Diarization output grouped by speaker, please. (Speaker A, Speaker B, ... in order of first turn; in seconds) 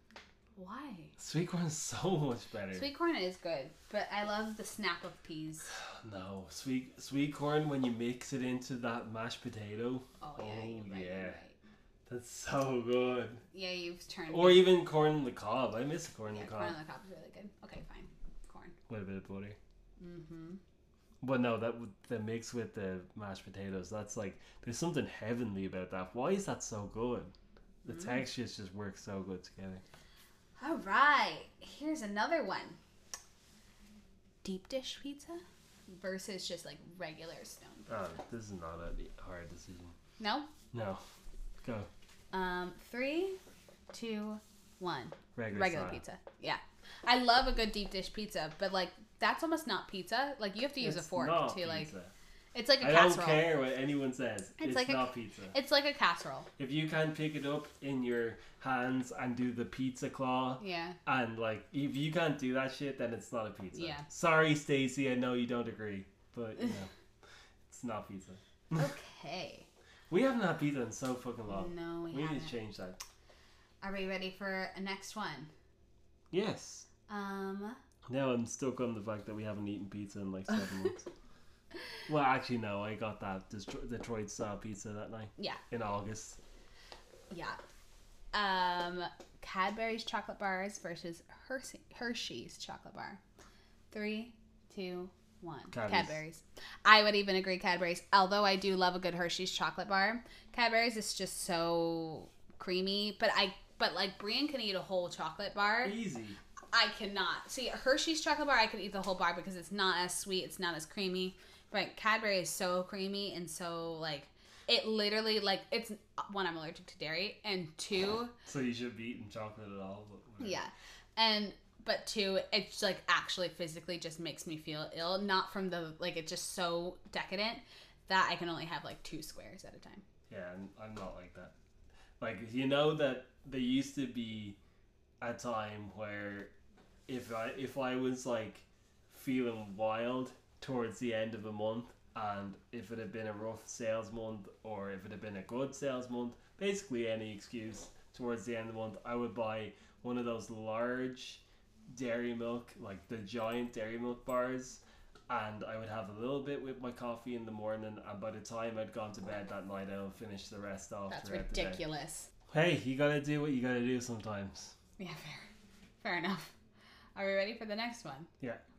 Speaker A: 0.6-1.2, 2.7-5.8, 10.2-11.6, 13.5-14.7, 16.3-18.8, 20.0-20.6, 30.6-32.8, 34.4-37.9, 40.2-40.5, 42.3-43.4, 43.9-51.9, 52.5-53.4, 54.6-56.5, 60.6-61.0, 63.7-64.1, 68.7-69.7, 71.5-72.5, 73.8-75.5, 77.1-77.8, 87.3-87.6, 88.3-93.2, 93.9-106.0, 106.7-118.3, 120.4-130.0, 161.1-162.3, 165.0-165.5, 166.0-166.6, 167.2-168.3
Speaker B: 1.2-2.9, 5.7-11.4, 12.1-13.4, 14.3-16.8, 18.9-19.6, 21.2-27.3, 27.8-29.8, 37.9-40.0, 40.7-41.0, 41.6-41.9, 45.4-46.0, 50.8-52.1, 52.8-55.6, 56.6-66.9, 67.7-68.9, 70.1-73.0, 76.3-76.9, 78.1-81.1, 82.1-86.4, 95.7-96.2, 105.8-106.4, 118.5-120.6, 130.3-131.5, 132.2-134.6, 135.2-136.5, 137.1-161.8, 162.5-164.8